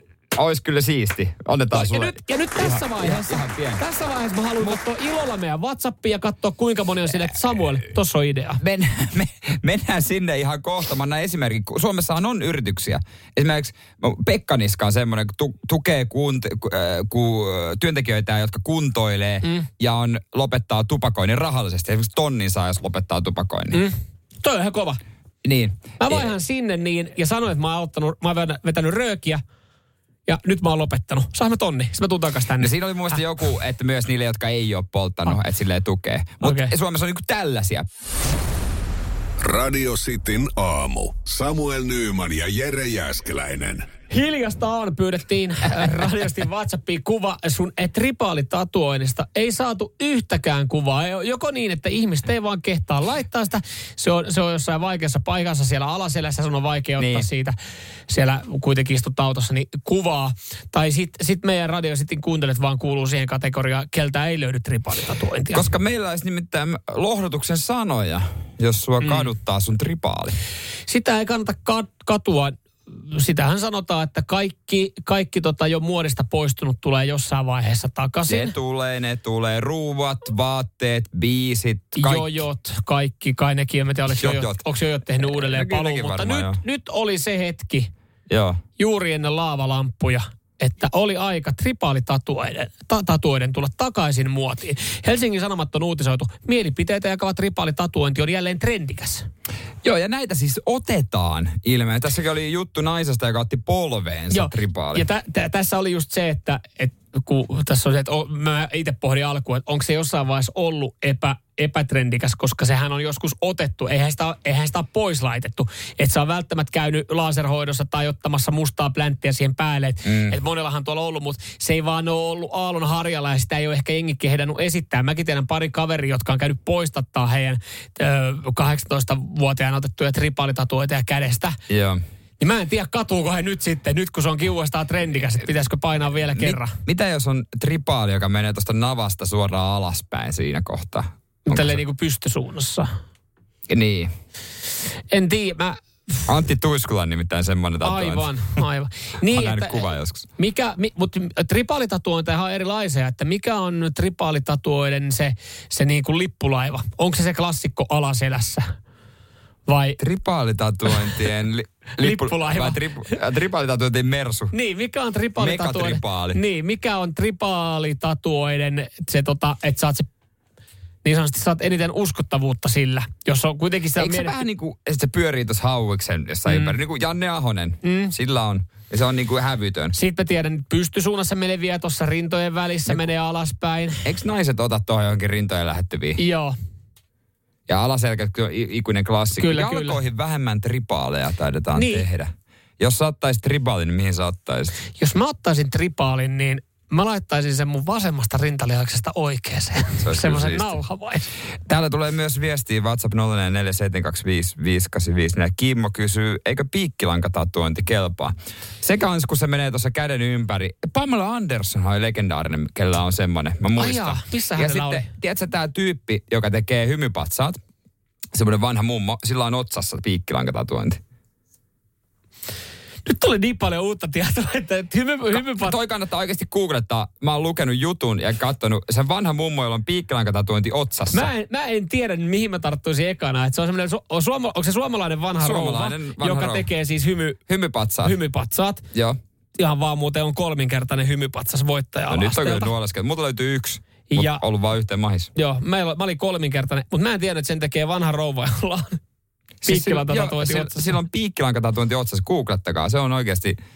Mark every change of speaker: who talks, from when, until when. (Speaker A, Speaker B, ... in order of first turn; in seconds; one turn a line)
Speaker A: 0.3-3.8
Speaker B: 1.7-8.6
Speaker A: 8.6-23.8
Speaker B: 23.7-25.0
Speaker A: 25.4-26.3
Speaker B: 26.0-29.4
Speaker B: 30.3-33.2
Speaker A: 32.6-37.9
Speaker B: 36.4-36.7
Speaker C: 39.4-43.8
Speaker B: 44.1-57.5
Speaker A: 57.0-57.2
Speaker B: 58.1-65.7
Speaker A: 65.5-70.4
Speaker B: 69.0-69.3
Speaker B: 70.9-78.5
Speaker A: 78.3-82.4
Speaker B: 81.9-87.9
Speaker A: 84.2-84.6
Speaker A: 85.2-86.6
Speaker A: 88.3-88.6
Speaker B: 88.8-99.2
Speaker A: 99.8-105.0
Speaker B: 104.3-131.6
Speaker A: 120.0-120.4
Speaker A: 131.7-132.0
Speaker B: 132.4-136.7
Speaker A: 136.3-141.8
Speaker B: 141.5-142.9
Speaker A: 143.7-144.1
Speaker B: 145.1-145.8
Speaker A: 146.3-148.3
Speaker B: 147.8-158.6
Speaker A: 149.3-150.2
Speaker B: 159.7-160.0
Speaker A: 160.0-164.5
Speaker B: 162.0-163.1
Speaker B: 164.5-170.1
Speaker A: 165.4-166.4
Speaker B: 171.0-174.4
Speaker A: 174.0-179.9
Speaker B: 176.5-176.8
Speaker B: 177.8-178.1
Speaker B: 179.9-184.0
Speaker A: 184.0-186.2
Speaker B: 186.2-186.5
Speaker A: 187.7-194.7
Speaker B: 189.4-190.0
Speaker B: 191.7-192.1
Speaker B: 195.0-201.3
Speaker A: 200.0-200.8
Speaker A: 201.7-217.6
Speaker B: 213.8-215.1
Speaker A: 218.3-221.0
Speaker B: 223.0-225.8
Speaker A: 225.3-231.3
Speaker B: 231.1-237.4
Speaker A: 235.4-236.7
Speaker A: 237.5-238.2
Speaker B: 238.0-238.8
Speaker B: 239.5-242.7
Speaker A: 242.1-245.3
Speaker B: 244.1-244.4
Speaker B: 245.3-249.0
Speaker A: 249.6-253.6
Speaker B: 249.7-250.9